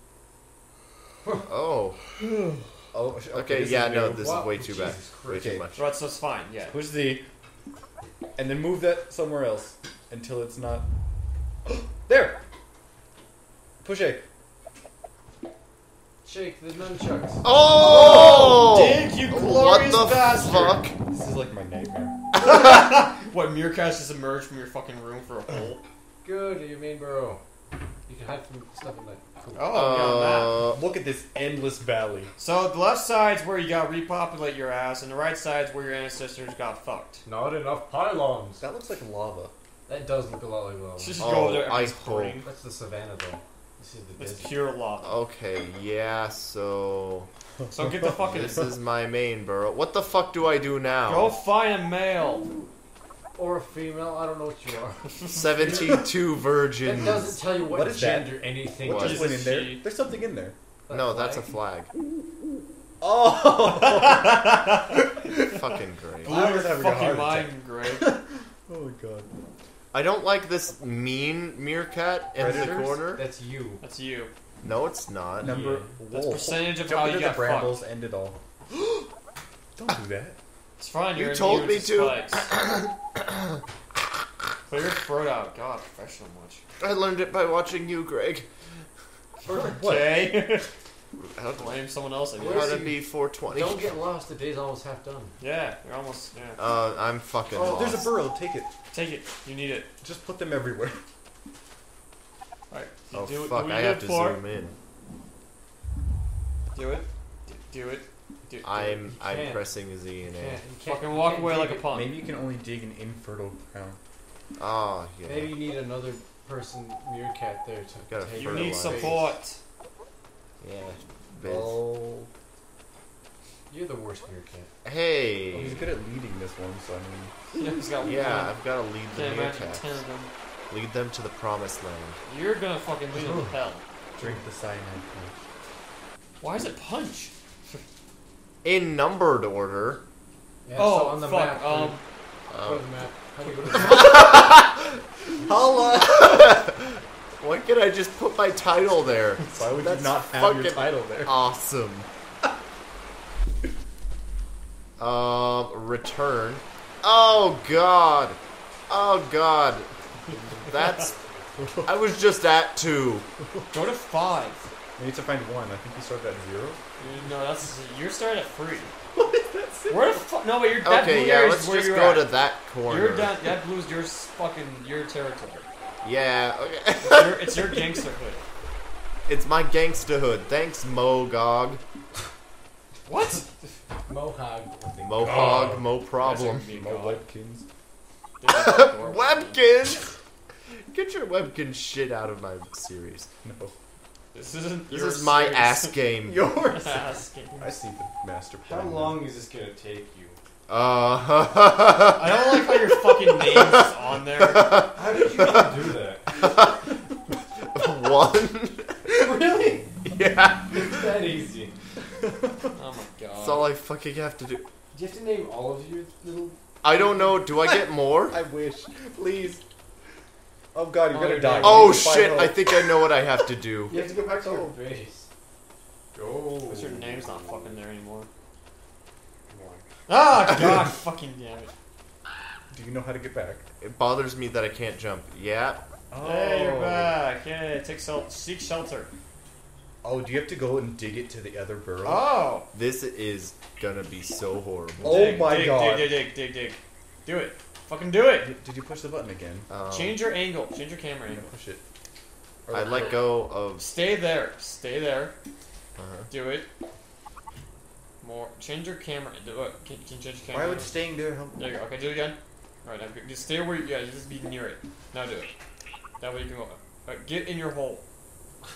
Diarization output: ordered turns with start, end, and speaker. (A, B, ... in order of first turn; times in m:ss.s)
0:01.4-0:02.0 A
0:02.9-0:04.4 B
0:03.3-0:05.8 A
0:04.2-0:05.6 C
0:05.8-0:06.8 D
0:06.7-0:07.2 B
0:08.4-0:10.9 B
0:11.6-0:12.4 B
0:13.8-0:14.2 B
0:16.2-0:17.4 C
0:17.4-0:21.0 A
0:17.8-0:20.9 D
0:21.1-0:22.2 B
0:22.4-0:25.8 D
0:22.4-0:22.8 A
0:26.2-0:27.4 C
0:28.1-0:29.8 C
0:29.5-0:30.6 D
0:29.7-0:30.8 A
0:30.7-0:32.3 B
0:32.4-0:37.2 D
0:37.2-0:38.6 C
0:38.6-0:39.5 B
0:39.9-0:41.2 C
0:41.0-0:42.4 D
0:41.2-0:42.4 A
0:42.4-0:44.5 C
0:44.2-0:45.1 D
0:45.0-0:47.3 A
0:47.6-0:48.1 B
0:47.7-0:48.7 D
0:48.2-0:51.3 A
0:51.0-0:52.5 D
0:53.4-0:55.0 C
0:55.0-0:56.0 D
0:55.3-0:57.4 A
0:55.6-0:55.9 C
0:56.8-0:59.3 C
0:57.6-1:00.6 B
0:58.8-0:59.2 A
0:58.9-0:59.8 D
1:00.9-1:01.5 C
1:00.9-1:01.9 A
1:03.0-1:05.5 B
1:03.6-1:05.0 D
1:05.4-1:06.3 A
1:06.2-1:08.1 D
1:06.2-1:09.3 B
1:09.9-1:13.2 A
1:12.4-1:13.0 B
1:13.2-1:13.8 C
1:13.8-1:14.3 D
1:14.6-1:15.6 A
1:15.4-1:19.1 B
1:15.4-1:17.8 D
1:19.8-1:20.4 B
1:20.8-1:22.5 D
1:21.2-1:23.6 A
1:24.7-1:26.6 D
1:26.8-1:28.5 A
1:29.5-1:30.2 B
1:29.5-1:30.7 D
1:31.2-1:31.8 A
1:31.6-1:32.9 D
1:32.4-1:33.0 C
1:32.4-1:33.8 A
1:33.5-1:35.3 C
1:35.4-1:36.6 D
1:36.6-1:38.1 A
1:37.5-1:38.7 B
1:38.9-1:39.9 D
1:40.0-1:41.0 B
1:42.7-1:44.4 D
1:43.1-1:44.7 A
1:46.7-1:49.0 D
1:48.6-1:50.6 A
1:49.0-1:49.6 C
1:50.3-1:51.8 C
1:50.8-1:52.1 D
1:51.9-1:54.0 B
1:54.6-1:55.5 A
1:55.2-1:59.3 C
1:58.1-1:59.2 A
1:58.3-1:59.6 D
2:00.6-2:01.8 A
2:01.4-2:02.3 B
2:03.7-2:04.7 C
2:04.8-2:05.9 A
2:05.5-2:07.3 B
2:07.5-2:08.6 D
2:08.0-2:10.0 A
2:09.1-2:10.3 D
2:10.7-2:12.2 A
2:12.3-2:13.8 D
2:13.1-2:13.5 C
2:14.2-2:15.3 B
2:16.4-2:17.8 D
2:18.6-2:20.0 A
2:20.6-2:22.0 C
2:20.8-2:22.0 D
2:22.5-2:22.8 A
2:22.6-2:24.4 C
2:23.7-2:25.0 A
2:25.4-2:26.6 B
2:25.9-2:32.1 A
2:29.5-2:31.4 B
2:35.0-2:38.4 A
2:38.9-2:39.9 A
2:40.3-2:42.0 B
2:40.6-2:41.1 A
2:41.8-2:43.3 A
2:43.4-2:43.7 B
2:43.7-2:44.6 D
2:45.0-2:46.8 B
2:47.0-2:48.9 D
2:49.1-2:50.2 B
2:49.9-2:52.3 D
2:50.8-2:53.3 A
2:52.8-2:55.6 D
2:56.0-2:57.8 A
2:57.0-2:58.4 D
2:59.3-3:01.8 A
3:03.1-3:03.5 D
3:04.1-3:05.8 C
3:05.0-3:06.7 A
3:05.4-3:07.2 D
3:06.7-3:07.6 B
3:08.4-3:09.6 D
3:08.5-3:10.1 A
3:10.9-3:13.3 A
3:13.4-3:13.7 B
3:14.3-3:15.9 D
3:14.9-3:16.4 A
3:16.2-3:19.2 B
3:16.6-3:17.7 D
3:18.6-3:20.4 C
3:20.7-3:25.7 A
3:22.1-3:24.9 D
3:24.9-3:26.6 C
3:26.3-3:26.8 A
3:27.7-3:29.4 A
3:29.1-3:29.9 C
3:30.0-3:31.1 A
3:30.6-3:31.7 C
3:32.2-3:32.7 B
3:32.7-3:33.7 D
3:33.4-3:34.6 A
3:34.9-3:36.6 C
3:36.8-3:38.4 A
3:38.3-3:39.6 B
3:40.7-3:43.2 B
3:41.1-3:42.2 D
3:41.6-3:44.0 A
3:43.9-3:45.3 C
3:43.9-3:44.8 B
3:46.1-3:47.8 C
3:46.7-3:48.3 D
3:49.5-3:49.8 C
3:50.1-3:51.7 D
3:52.7-3:53.6 B
3:53.8-3:55.8 A
3:56.1-3:57.1 B
3:56.2-3:59.1 D
4:00.0-4:02.3 B
4:02.0-4:02.6 D
4:02.7-4:05.5 A
4:05.0-4:06.2 B
4:05.0-4:08.5 D
4:08.4-4:09.7 B
4:09.7-4:10.2 A
4:09.9-4:11.4 D
4:11.3-4:11.8 B
4:12.6-4:13.2 B
4:12.7-4:13.9 A
4:13.8-4:15.3 D
4:16.0-4:16.3 A
4:16.3-4:16.7 D
4:18.2-4:20.9 D
4:20.5-4:21.6 B
4:21.6-4:25.5 D
4:26.2-4:28.0 D